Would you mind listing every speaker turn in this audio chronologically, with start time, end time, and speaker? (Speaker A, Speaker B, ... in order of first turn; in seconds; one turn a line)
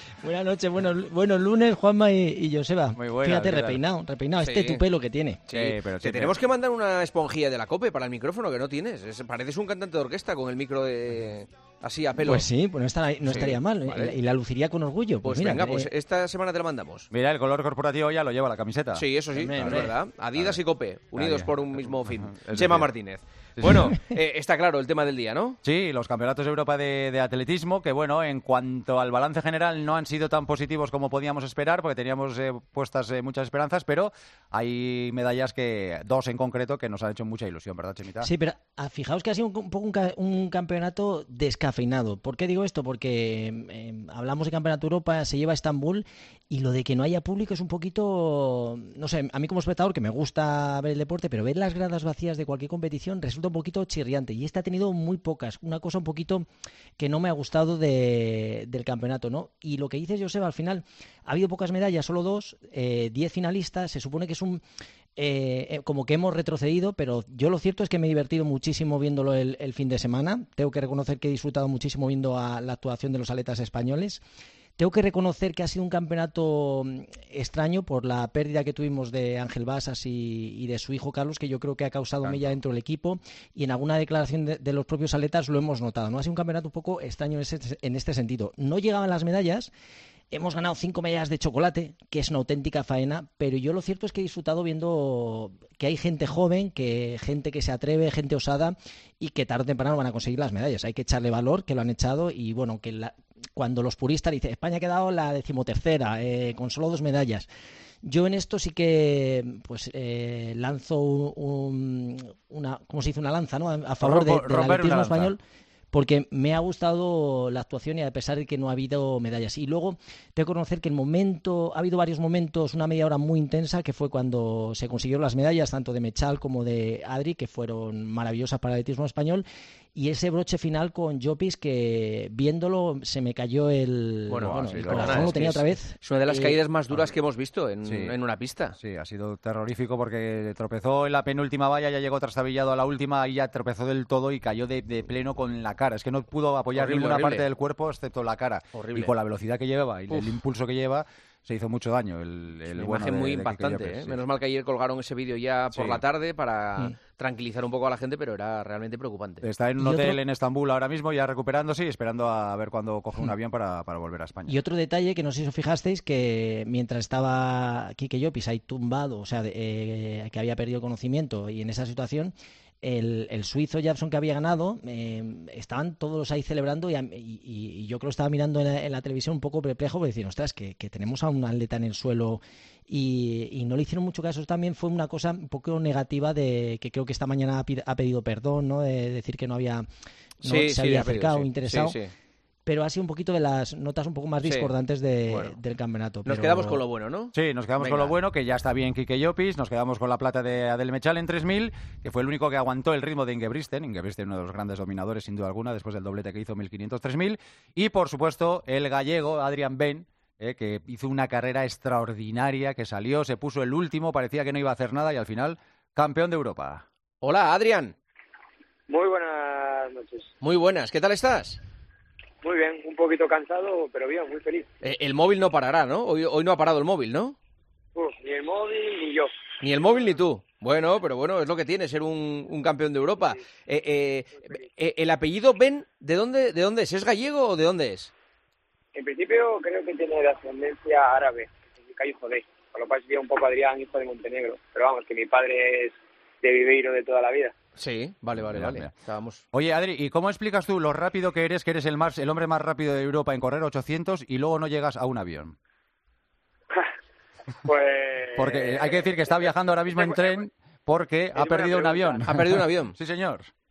Speaker A: 0.2-5.5
Speaker B: 3.0-3.8
Speaker C: 4.4-4.8
Speaker C: 5.5-12.5
Speaker B: 5.5-6.3
Speaker A: 12.2-15.9
Speaker C: 13.2-14.1
Speaker C: 15.2-17.1
Speaker B: 17.1-20.6
Speaker C: 18.9-25.6
Speaker A: 19.3-19.9
Speaker B: 21.1-22.9
Speaker B: 23.6-24.0
Speaker B: 25.6-38.3
Speaker A: 38.2-56.4
Speaker A: 57.0-64.6
Speaker A: 65.2-74.2
Speaker A: 74.8-89.7
Speaker B: 82.2-82.5
Speaker A: 90.3-107.5
Speaker A: 108.0-115.4
Speaker B: 114.0-115.3
Speaker A: 115.9-136.6
Speaker C: 134.3-138.8
Speaker B: 134.4-135.3
Speaker B: 137.8-138.1
Speaker B: 138.8-154.2
Speaker C: 146.7-147.4
Speaker C: 148.7-149.1
Speaker C: 150.1-150.4
Speaker C: 152.7-159.4
Speaker B: 155.7-156.0
Speaker B: 159.4-164.5
Speaker A: 159.8-160.2
Speaker A: 164.5-189.8
Speaker A: 190.4-192.0
Speaker C: 190.4-192.1
Speaker A: 192.7-196.8
Speaker C: 194.4-194.7
Speaker C: 195.3-195.6
Speaker C: 196.2-198.1
Speaker B: 197.3-216.8
Speaker C: 217.2-217.9
Speaker D: 218.9-220.3
Speaker C: 220.4-221.6
Speaker D: 222.4-224.7
Speaker C: 224.8-227.3
Speaker D: 227.9-229.3
Speaker C: 229.6-238.1
Speaker D: 238.9-247.5
Speaker C: 247.8-249.4
Speaker B: 248.4-248.9
Speaker B: 249.5-255.5
Speaker D: 257.6-259.1
Speaker B: 258.4-263.5
Speaker D: 259.9-260.5
Speaker D: 261.3-262.3
Speaker C: 262.2-262.9